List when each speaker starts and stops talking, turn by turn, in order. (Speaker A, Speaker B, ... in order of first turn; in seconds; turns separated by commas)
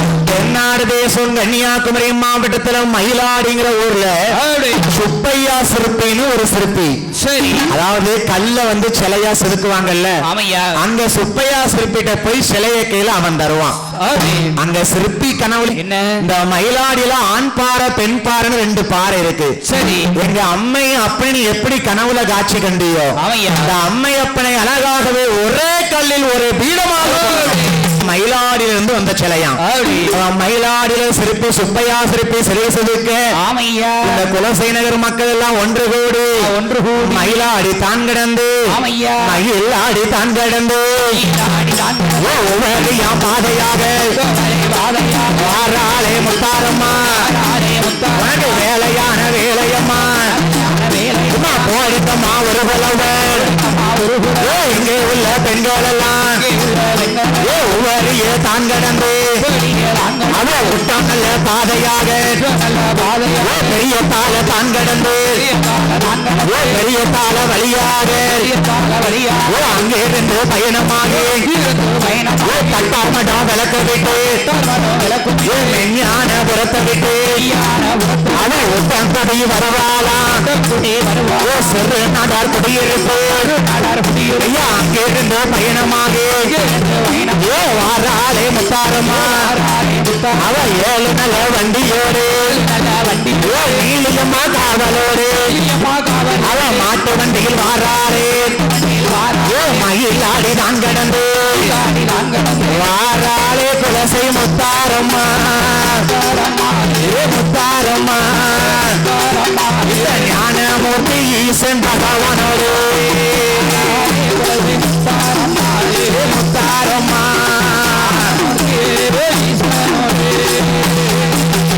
Speaker A: 0.3-4.2, Speaker B: 4.3-4.8, Speaker A: 4.9-7.0, Speaker B: 7.2-7.7, Speaker A: 7.7-10.2, Speaker B: 10.2-10.8, Speaker A: 10.8-13.8, Speaker B: 14.0-14.6, Speaker A: 14.6-19.6, Speaker B: 15.7-16.2, Speaker B: 19.6-20.1, Speaker A: 20.2-29.6, Speaker B: 23.2-23.7, Speaker B: 27.0-27.9, Speaker B: 29.6-30.1, Speaker A: 30.1-33.2, Speaker B: 33.4-34.2, Speaker A: 34.0-36.4, Speaker B: 36.4-37.5, Speaker A: 37.0-38.5, Speaker B: 38.7-39.2, Speaker A: 39.2-41.1, Speaker B: 41.1-42.6, Speaker A: 42.2-44.1, Speaker B: 44.1-45.6, Speaker A: 45.4-47.2, Speaker B: 47.0-48.7, Speaker A: 48.2-50.3, Speaker B: 50.2-51.8, Speaker A: 51.3-53.5, Speaker B: 53.3-54.7, Speaker A: 54.4-56.4, Speaker B: 56.4-57.7, Speaker A: 57.4-59.4, Speaker B: 59.4-60.8, Speaker A: 60.3-62.4, Speaker B: 62.4-63.8, Speaker A: 63.4-65.4, Speaker B: 65.3-66.8, Speaker A: 66.4-68.5, Speaker B: 68.2-69.6, Speaker A: 69.5-71.5, Speaker B: 71.0-73.0, Speaker A: 72.4-74.4, Speaker B: 74.3-75.9, Speaker A: 75.4-77.4, Speaker B: 77.3-78.6, Speaker A: 78.3-80.5, Speaker B: 80.4-81.8, Speaker A: 81.4-83.5, Speaker B: 83.3-84.5, Speaker A: 84.4-86.5, Speaker B: 86.4-87.5, Speaker A: 87.4-89.5, Speaker B: 89.0-90.4, Speaker A: 90.4-92.5, Speaker B: 92.5-93.9, Speaker A: 93.4-95.5, Speaker B: 95.5-96.9, Speaker A: 96.4-98.5, Speaker B: 98.5-99.9, Speaker A: 99.5-101.8, Speaker B: 101.4-102.9, Speaker A: 102.6-106.1, Speaker B: 106.0-107.2, Speaker A: 107.0-109.0, Speaker B: 108.5-110.3, Speaker A: 109.8-114.0, Speaker B: 113.5-116.3, Speaker A: 116.1-118.4, Speaker B: 117.9-121.3